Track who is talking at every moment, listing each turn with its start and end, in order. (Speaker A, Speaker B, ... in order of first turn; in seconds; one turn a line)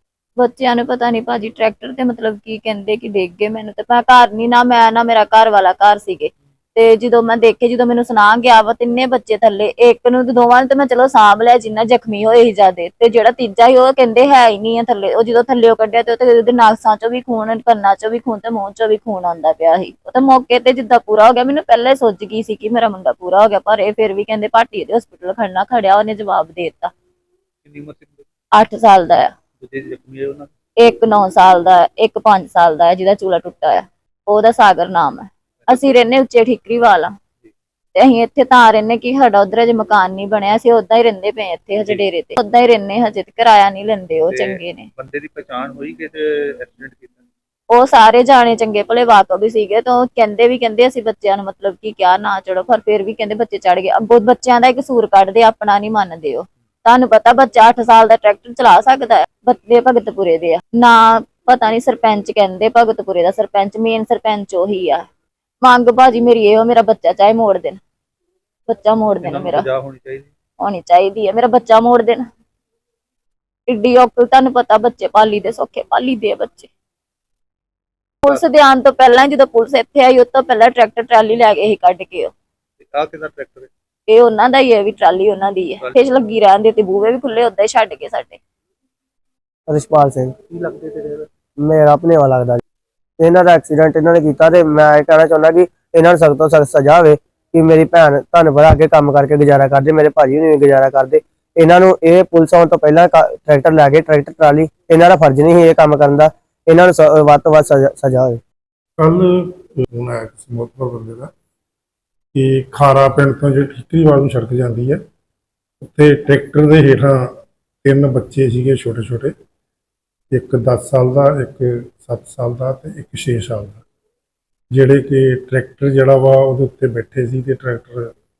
Speaker A: 0.4-26.9
Speaker B: 27.6-28.2
Speaker A: 28.5-29.3
Speaker B: 29.6-30.5
Speaker A: 30.8-37.1
Speaker A: 38.0-44.9
Speaker B: 44.3-47.2
Speaker A: 47.7-65.0
Speaker A: 65.6-67.8
Speaker A: 68.7-69.6
Speaker B: 69.2-70.3
Speaker A: 70.6-72.2
Speaker A: 73.7-76.7
Speaker A: 78.2-82.3
Speaker B: 82.8-83.7
Speaker A: 84.1-88.4
Speaker C: 89.7-92.6
Speaker C: 93.2-108.4
Speaker D: 109.0-111.3
Speaker D: 112.3-115.0
Speaker D: 115.8-117.3
Speaker D: 117.8-119.3
Speaker D: 120.3-123.8
Speaker D: 124.7-128.1